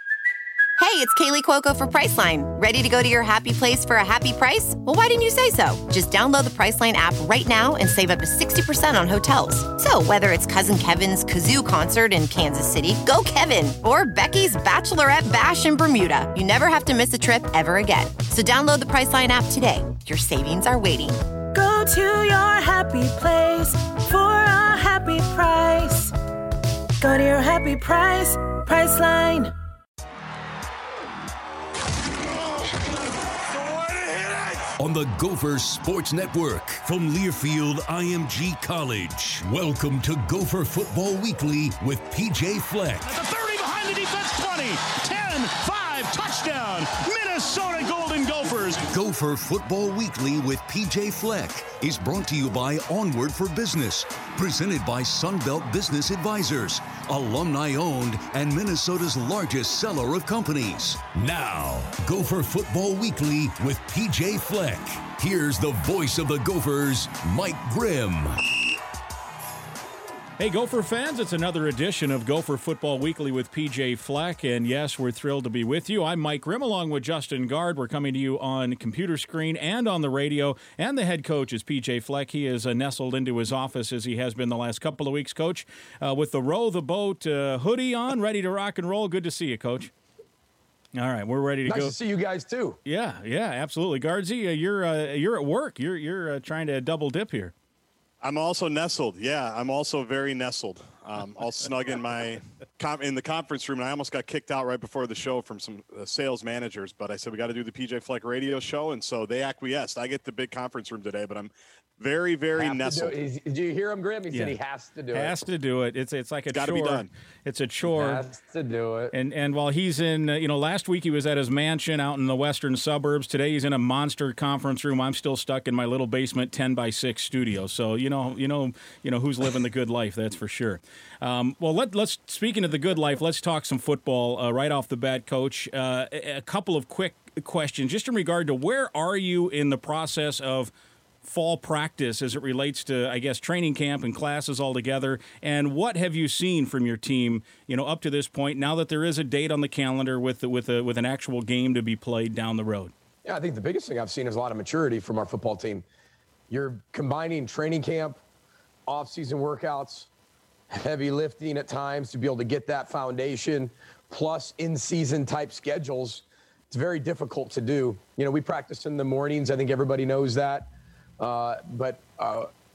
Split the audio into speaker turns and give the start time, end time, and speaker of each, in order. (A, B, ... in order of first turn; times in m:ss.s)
0:00.8-0:21.2 A
0:21.5-0:26.1 B
0:27.0-0:29.5 B
0:34.8-0:43.1 C
0:43.0-0:48.8 D
0:48.8-1:08.4 C
1:10.4-1:29.9 E
1:31.0-1:31.9 E
1:31.6-1:32.8 F
1:32.8-1:37.5 E
1:38.2-1:53.2 G
1:52.5-1:55.4 F
1:55.1-1:58.2 E
1:56.5-1:57.1 G
1:57.8-1:59.1 F
1:59.1-2:20.7 E
2:21.2-2:32.9 E
2:33.2-2:35.8 F
2:36.5-2:38.2 F
2:38.9-2:40.1 F
2:40.7-2:50.7 F
2:51.2-2:52.5 F